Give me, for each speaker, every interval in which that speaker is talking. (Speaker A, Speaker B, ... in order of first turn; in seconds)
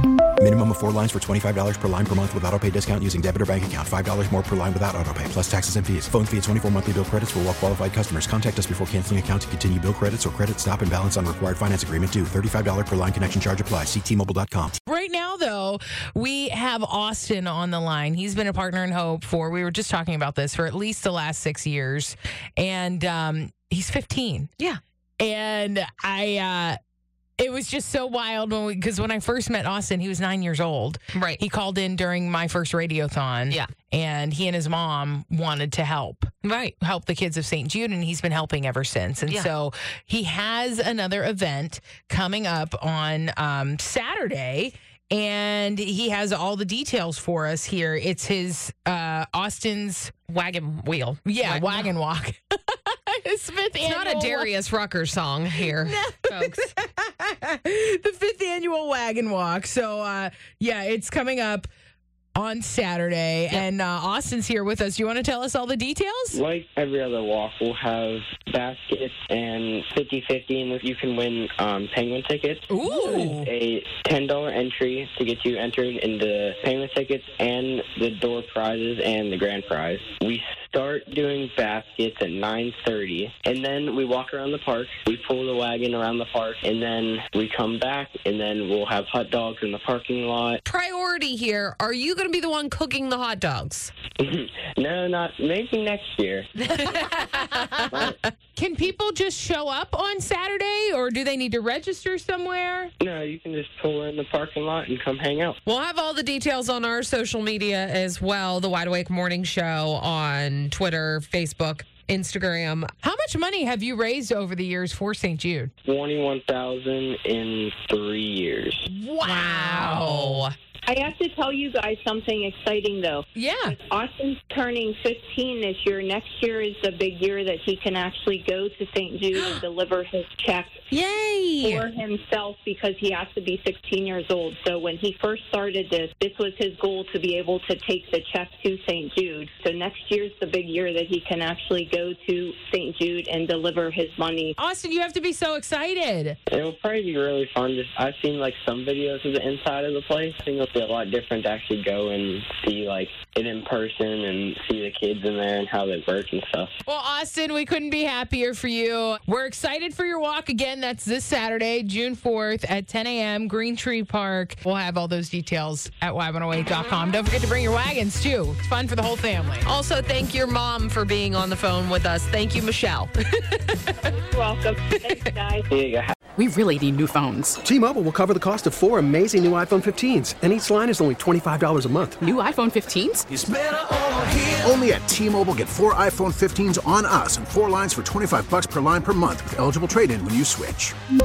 Speaker A: 0.4-14.8
Speaker B: 14.8-24.5, 25.2-26.8, 27.4-50.1, 51.2-54.5, 55.7-61.7, 62.3-66.4, 72.7-73.5, 96.9-97.8, 98.5-102.9, 113.0-115.7, 118.9-120.4, 123.3-123.7, 144.6-146.4, 156.8-169.7
Speaker C: 31.1-31.4, 36.4-36.7, 50.3-51.9, 53.8-56.6, 90.7-93.9, 96.6-98.2, 105.7-112.9, 119.2-120.5, 130.9-131.8, 169.6-173.1
Speaker D: 66.3-90.6, 94.2-96.5, 97.9-98.2, 103.0-105.6, 115.8-118.8, 146.5-156.7, 175.7-176.1
Speaker E: 120.8-130.9, 131.6-144.5, 174.1-175.7
Speaker F: 176.4-177.6, 182.2-183.2
Speaker G: 177.6-182.2
Speaker H: 183.3-190.9